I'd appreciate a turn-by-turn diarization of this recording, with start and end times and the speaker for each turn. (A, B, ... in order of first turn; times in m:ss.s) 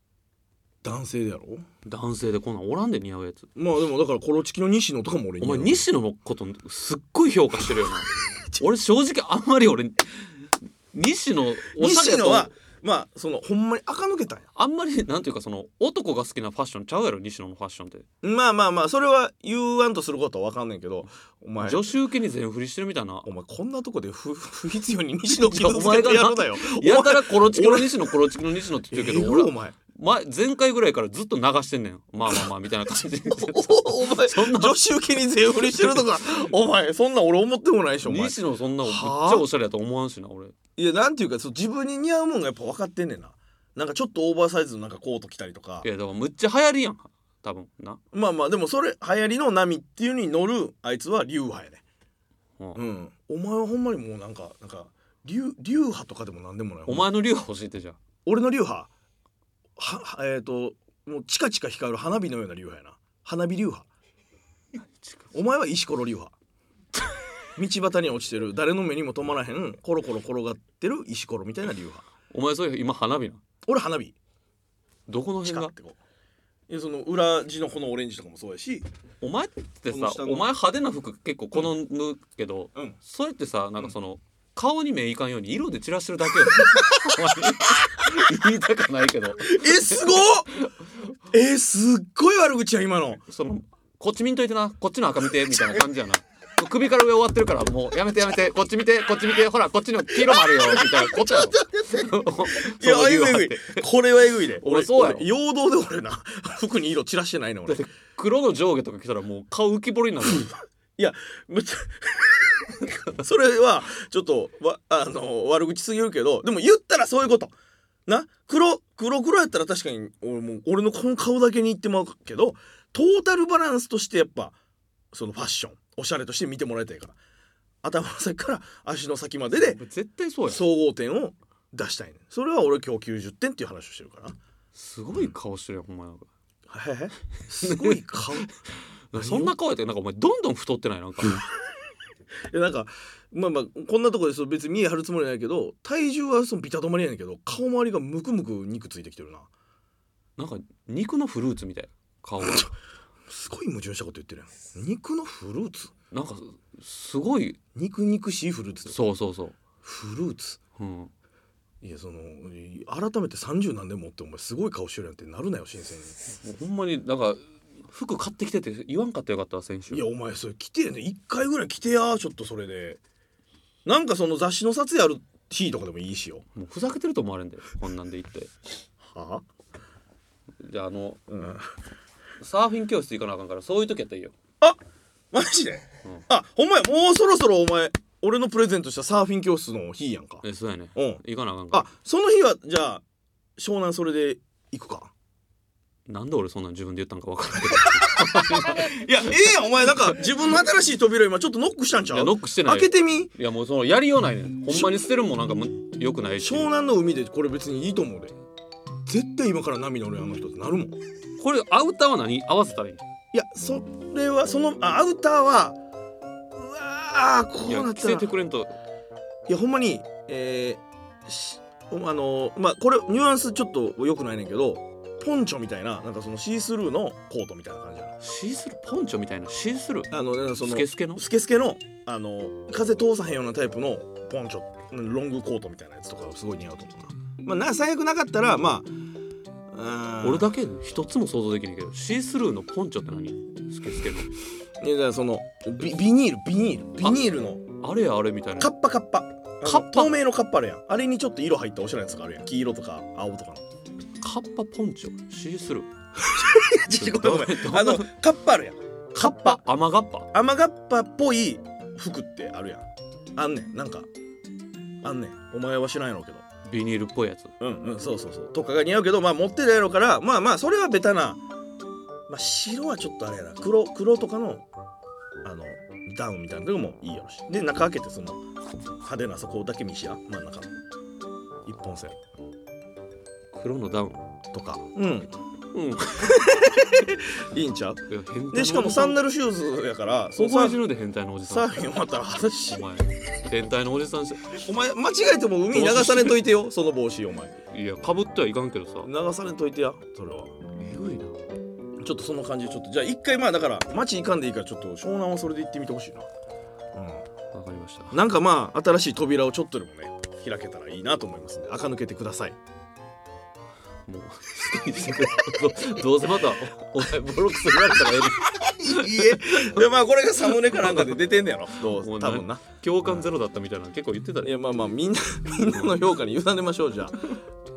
0:00.8-0:01.6 A
0:01.9-0:03.5 B
0:03.6-0:05.8 A
0:05.4-0:12.5 B
0:08.4-0:08.6 A
0:11.8-0:14.5 A
0:14.6-0:18.0 B
0:18.2-0:21.8 A
0:21.6-0:23.3 B
0:23.2-0:28.2 A
0:25.4-0:34.8 B
0:28.9-0:29.8 A
0:33.3-0:39.5 A
0:35.6-0:36.4 B
0:38.0-0:40.5 B
0:40.8-0:45.9 A
0:45.8-0:48.0 B
0:48.1-0:51.8 A
0:52.8-0:57.1 A
0:56.9-0:58.0 B
0:58.3-0:58.9 A
0:59.8-1:03.9 A
1:05.0-1:05.3 B
1:05.3-1:06.3 A
1:07.6-1:12.1 A
1:12.3-1:13.4 B
1:13.7-1:14.2 A
1:15.1-1:15.7 B
1:15.4-1:16.0 A
1:16.7-1:18.9 A
1:19.2-1:30.7 B
1:19.9-1:20.5 A
1:26.7-1:28.1 A
1:29.4-1:30.6 A
1:31.3-1:33.2 A
1:33.3-1:43.9 B
1:40.2-1:47.9 A
1:44.6-1:45.3 B
1:47.7-1:50.5 B
1:51.0-1:57.5 A
1:58.1-2:04.6 A
2:05.1-2:07.2 A
2:07.8-2:09.8 A
2:09.6-2:10.6 B
2:10.5-2:14.4 A
2:14.8-2:16.3 B
2:16.7-2:18.6 A
2:17.6-2:18.0 B
2:19.1-2:21.5 B
2:19.1-2:19.5 A
2:22.5-2:29.5 A
2:30.4-2:32.7 B
2:33.3-2:35.9 A
2:36.1-2:37.6 B
2:37.8-2:39.0 A
2:38.9-2:39.6 B
2:39.8-2:40.6 A
2:40.7-2:41.1 B
2:41.8-2:46.2 A
2:46.4-2:50.0 B
2:49.9-2:53.0 A
2:53.8-2:56.5 A
2:56.6-2:58.5 B
2:59.0-2:59.4 A
3:00.6-3:01.2 B
3:01.3-3:01.7 A
3:02.4-3:04.3 B
3:05.3-3:10.4 A
3:10.4-3:11.9 B
3:11.0-3:13.0 A
3:13.6-3:15.1 A
3:16.1-3:19.0 B
3:17.8-3:23.3 A
3:22.1-3:26.7 B
3:24.7-3:24.9 A
3:26.4-3:28.4 A
3:29.1-3:31.0 A
3:31.4-3:33.0 B
3:33.3-3:35.8 A
3:36.6-3:38.3 A
3:37.7-3:38.8 B
3:39.5-3:48.2 A
3:48.2-3:51.2 B
3:50.1-3:59.0 A
3:59.7-4:00.5 A
4:00.2-4:04.3 B
4:04.8-4:07.6 A
4:07.0-4:08.7 B
4:08.6-4:13.6 A
4:09.6-4:10.2 B
4:14.2-4:15.9 B
4:16.2-4:19.6 A
4:16.8-4:18.1 B
4:19.1-4:20.3 B
4:20.3-4:24.1 A
4:25.0-4:26.5 A
4:26.6-4:27.5 B
4:27.6-4:31.4 A
4:32.3-4:34.7 A
4:35.4-4:38.4 A
4:39.0-4:40.7 A
4:41.6-4:42.2 A
4:43.5-4:44.3 B
4:44.5-4:45.3 A
4:45.7-4:46.6 B
4:46.2-4:50.8 A
4:48.1-4:49.3 B
4:50.4-4:51.7 B
4:51.5-4:52.9 A
4:52.7-4:54.6 B
4:54.6-4:57.6 A
4:55.7-4:56.4 B
4:57.7-4:59.1 B
4:59.0-5:00.6 A
5:00.8-5:01.4 B
5:02.0-5:06.3 A
5:06.9-5:07.3 A
5:07.5-5:08.2 B
5:08.1-5:12.6 A
5:14.1-5:19.8 B
5:18.6-5:23.3 A
5:20.8-5:21.1 B
5:21.9-5:24.6 B
5:24.4-5:27.3 A